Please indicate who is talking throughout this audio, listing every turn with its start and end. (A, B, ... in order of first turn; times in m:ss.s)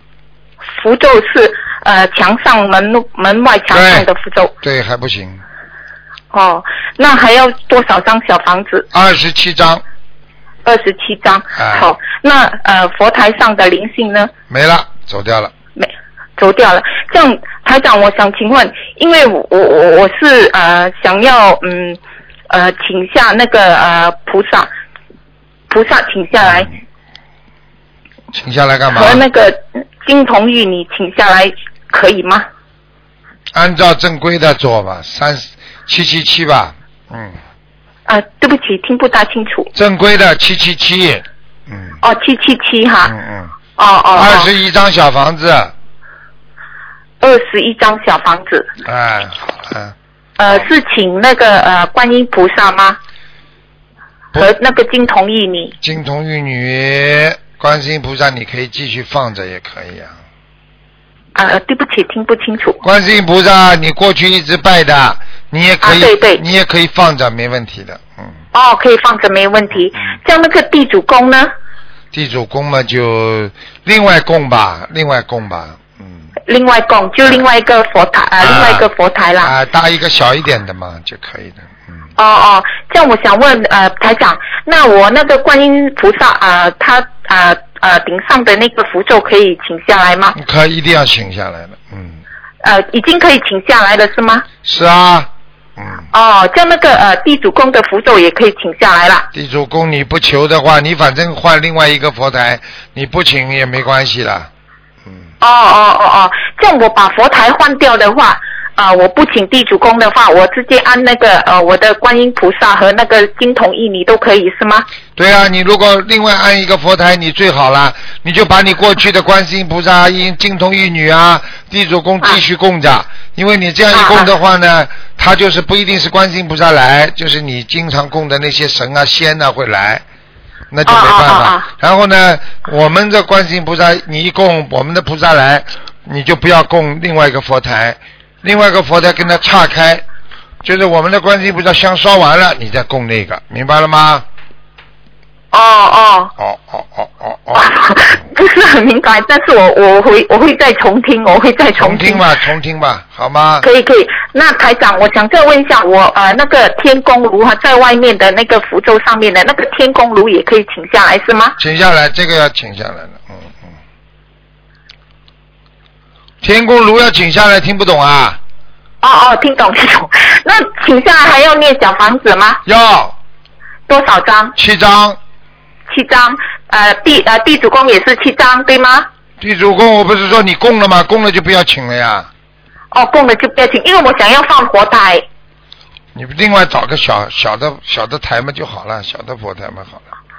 0:00.7-0:04.5 A
0:03.7-0:04.1 B
0:04.6-0:05.4 B
0:06.3-0:08.9 A
0:08.9-0:09.8 B
0:10.6-0:14.3 A
0:11.6-0:11.9 B
0:14.5-0:15.5 B
0:15.8-0:22.0 A
0:22.5-0:24.7 A
0:25.7-0:26.7 A
0:26.4-0:26.7 B
0:28.3-0:29.2 B
0:28.9-0:32.5 A
0:33.5-0:37.4 B
0:38.1-0:39.7 A
0:39.7-0:42.0 B
0:42.0-0:43.1 A
0:43.0-0:43.6 B
0:43.8-0:44.5 A
0:44.1-0:45.7 B
0:47.2-0:48.7 A
0:48.8-0:50.0 B
0:50.4-0:53.0 A
0:54.4-0:55.7 A
0:55.8-1:00.1 B
1:01.3-1:02.8 A
1:02.8-1:08.4 B
1:05.8-1:06.4 A
1:08.5-1:11.5 A
1:12.1-1:16.3 B
1:16.5-1:19.5 A
1:18.4-1:18.9 B
1:19.4-1:22.0 B
1:22.2-1:30.4 A
1:30.3-1:32.2 B
1:32.6-1:34.4 A
1:34.6-1:36.0 B
1:36.1-1:39.3 A
1:39.3-1:44.5 B
1:45.4-1:54.9 A
1:55.2-2:10.0 B
2:03.9-2:04.3 A
2:10.7-2:20.0 B
2:10.9-2:11.7 A
2:20.6-2:24.3 B
2:25.5-2:26.3 A
2:26.4-2:28.2 B
2:27.6-2:32.2 A
2:31.8-2:33.6 B
2:33.6-2:41.6 A
2:41.6-2:43.7 B
2:46.4-2:48.4 B
2:49.0-2:52.6 A
2:52.6-2:53.1 B
2:53.9-2:54.6 A
2:54.6-2:55.2 B
2:55.9-2:59.1 A
2:59.4-3:02.3 B
3:02.9-3:05.2 A
3:06.1-3:10.0 B